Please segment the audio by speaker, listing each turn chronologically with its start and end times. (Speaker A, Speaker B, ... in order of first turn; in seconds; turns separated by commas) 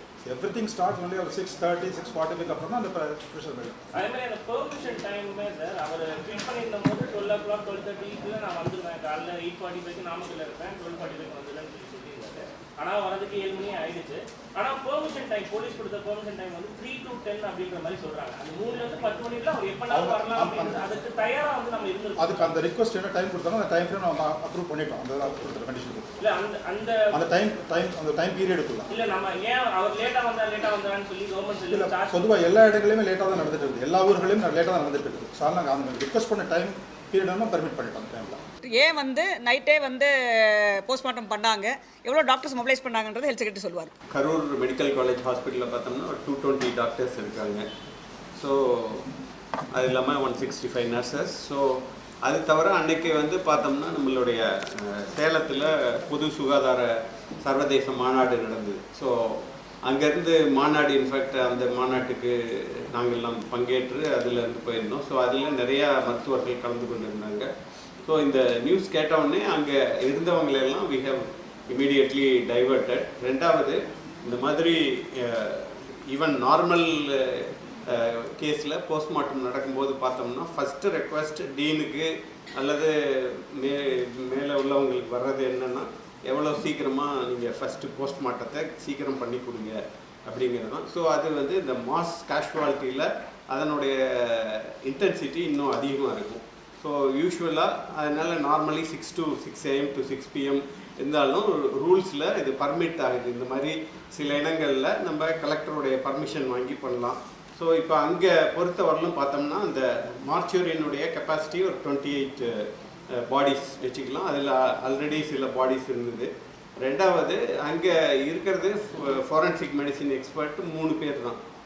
Speaker A: 0.3-3.9, Speaker B: 3.9-22.5, Speaker A: 19.9-20.8, Speaker A: 22.2-26.1, Speaker B: 26.2-27.1, Speaker A: 27.1-28.9, Speaker B: 28.9-32.3, Speaker A: 31.7-38.4, Speaker C: 38.6-43.9, Speaker D: 44.1-47.6, Speaker D: 48.4-49.0, Speaker D: 49.7-62.4, Speaker D: 62.9-67.5, Speaker D: 68.0-121.4